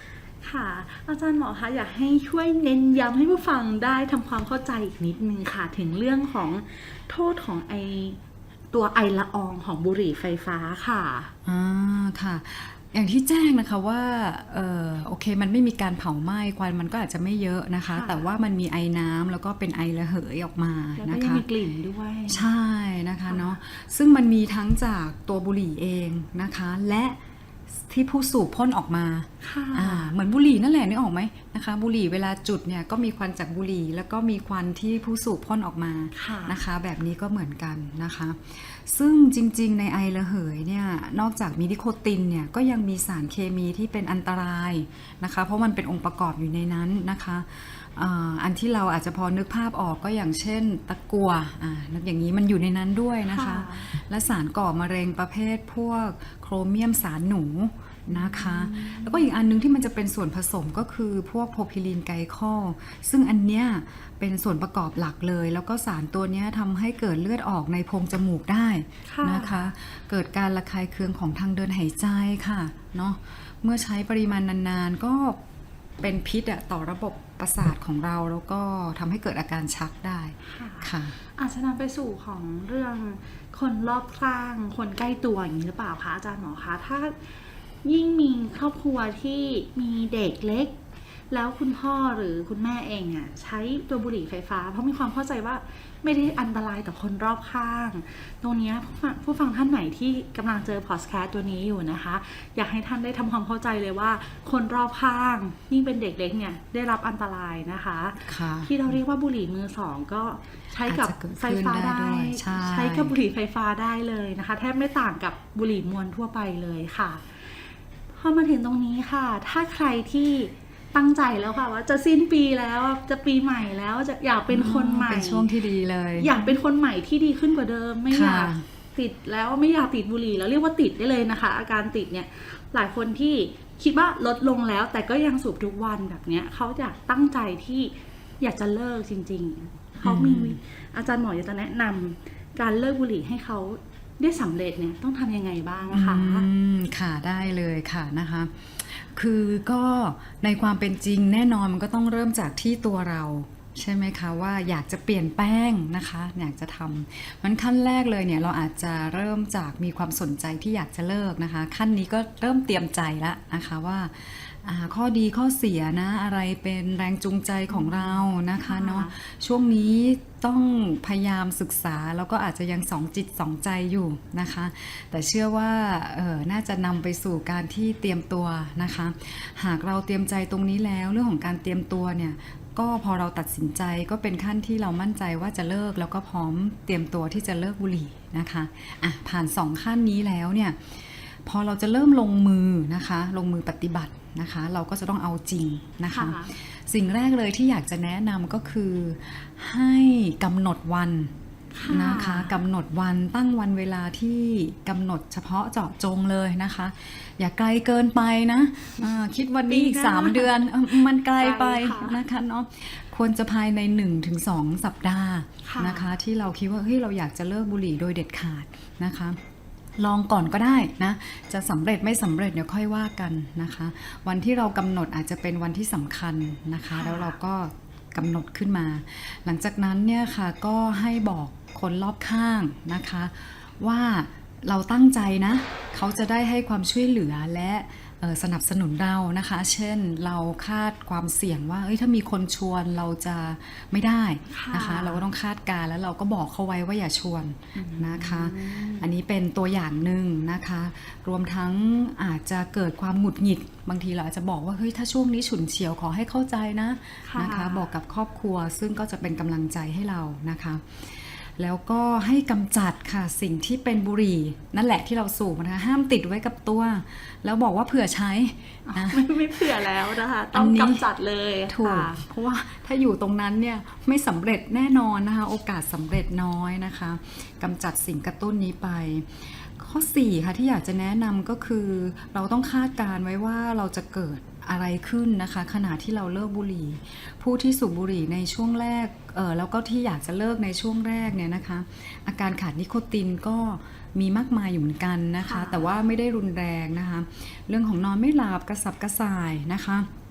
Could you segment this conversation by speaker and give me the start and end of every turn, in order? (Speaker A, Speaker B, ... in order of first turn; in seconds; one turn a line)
Speaker A: 0.4-8.2
Speaker A: 8.7-11.3
Speaker B: 11.4-21.4
Speaker A: 17.9-18.3
Speaker A: 21.0-22.5
Speaker B: 22.3-27.2
Speaker A: 23.3-23.6
Speaker B: 27.7-75.4
Speaker A: 29.4-30.1
Speaker A: 36.1-36.6
Speaker A: 53.3-53.9
Speaker A: 58.1-59.3
Speaker A: 69.1-69.7
Speaker B: 76.0-81.2
Speaker A: 80.4-87.3
Speaker A: 87.8-90.8
Speaker A: 91.3-117.4
Speaker B: 108.2-109.0
Speaker B: 110.9-113.2
Speaker A: 118.1-125.5
Speaker B: 124.5-126.3
Speaker A: 126.2-146.5
Speaker B: 128.1-128.6
Speaker B: 140.0-140.6
Speaker B: 145.9-201.3
Speaker A: 167.7-169.1
Speaker A: 196.1-196.5
Speaker A: 201.7-202.5
Speaker B: 201.9-219.4
Speaker A: 209.7-212.2
Speaker A: 215.6-216.1
Speaker B: 220.0-270.0
Speaker A: 226.9-227.3
Speaker A: 244.5-245.2
Speaker A: 247.8-249.1
Speaker A: 257.2-257.9
Speaker A: 268.9-272.2
Speaker B: 270.5-271.1
Speaker B: 271.7-300.1
Speaker A: 295.4-295.9